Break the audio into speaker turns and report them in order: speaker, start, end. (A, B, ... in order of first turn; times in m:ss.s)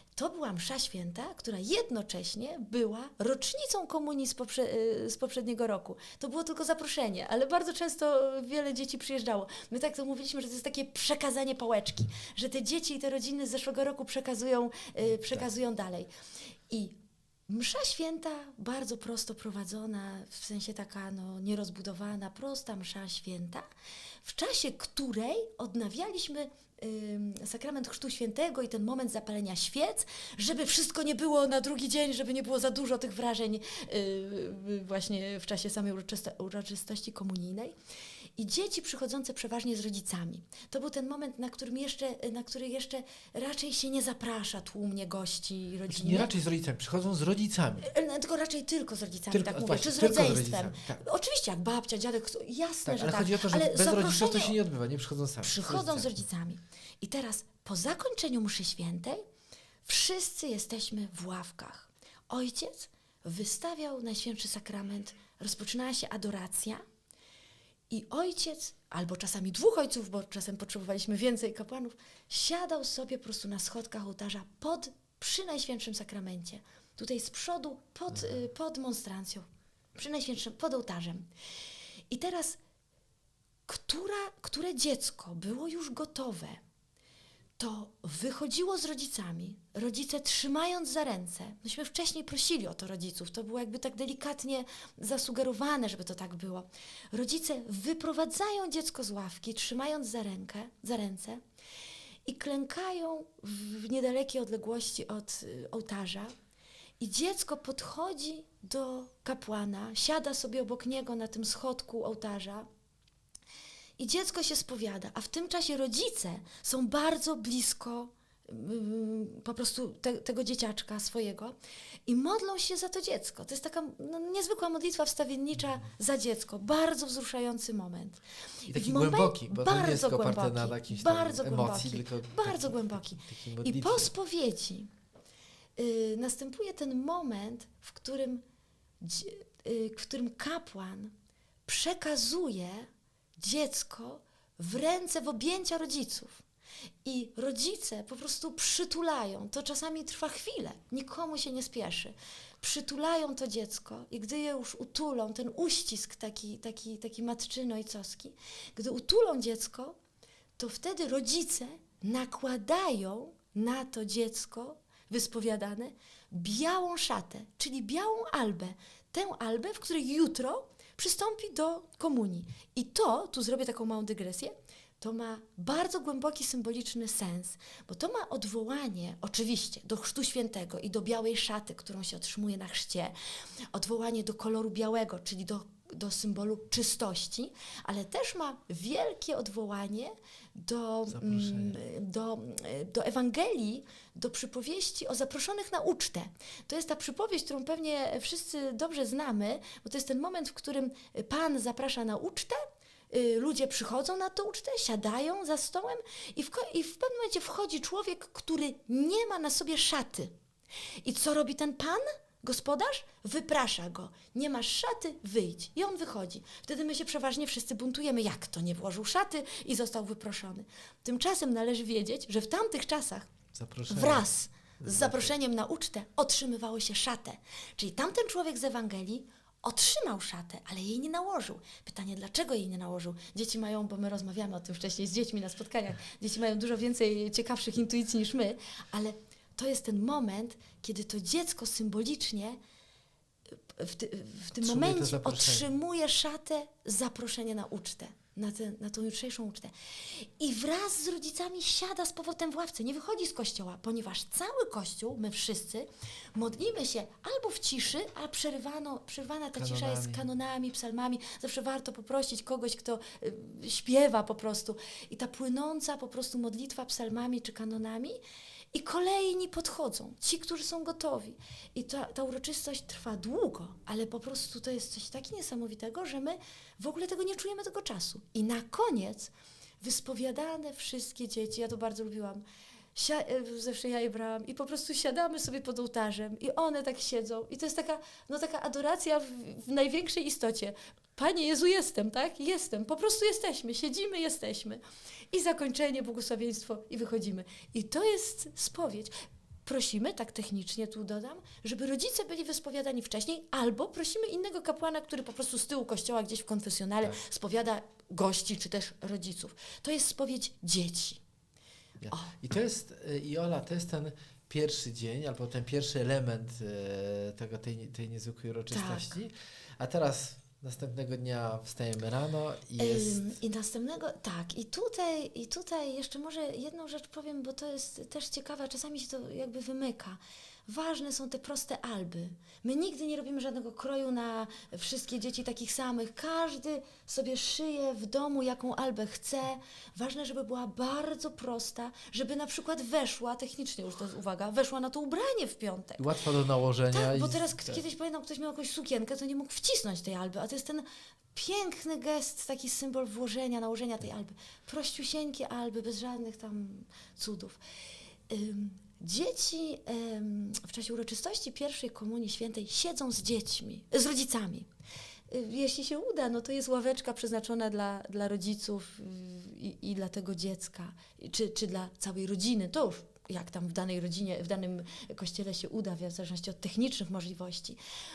0:00.2-0:16.1 A
0:16.7-0:17.0 A
0:17.5-0:23.6 A
0:24.2-0:37.7 A
0:38.4-0:46.3 A
0:45.9-0:47.9 B
0:47.8-0:54.6 A
0:49.3-0:51.0 B
0:52.8-0:56.1 B
0:55.4-0:59.2 A
0:59.8-1:06.8 A
1:07.9-1:21.3 A
1:22.1-1:22.6 A
1:23.7-1:26.6 A
1:27.6-1:41.4 A
1:42.2-1:46.3 A
1:47.0-1:52.7 A
1:54.0-2:01.6 A
2:02.1-2:14.9 A
2:08.7-2:14.1 B
2:15.8-2:18.4 A
2:19.0-2:21.1 A
2:21.7-2:26.4 A
2:27.0-2:40.0 A
2:40.6-3:03.1 A
3:03.7-3:30.3 A
3:11.1-3:11.8 B
3:31.0-3:43.3 A
3:43.5-3:44.2 B
3:43.9-4:02.6 A
3:44.8-3:45.3 B
4:03.7-4:28.2 A
4:04.6-4:05.6 B
4:19.5-4:20.2 B
4:28.7-4:42.4 A
4:42.9-4:54.8 A
4:55.3-4:59.1 A
4:59.6-5:11.2 A
5:12.0-5:23.3 B
5:18.7-5:19.2 A
5:22.8-5:46.1 A
5:46.0-5:47.8 B
5:46.9-5:57.6 A
5:58.3-6:04.7 A
6:05.3-6:17.8 A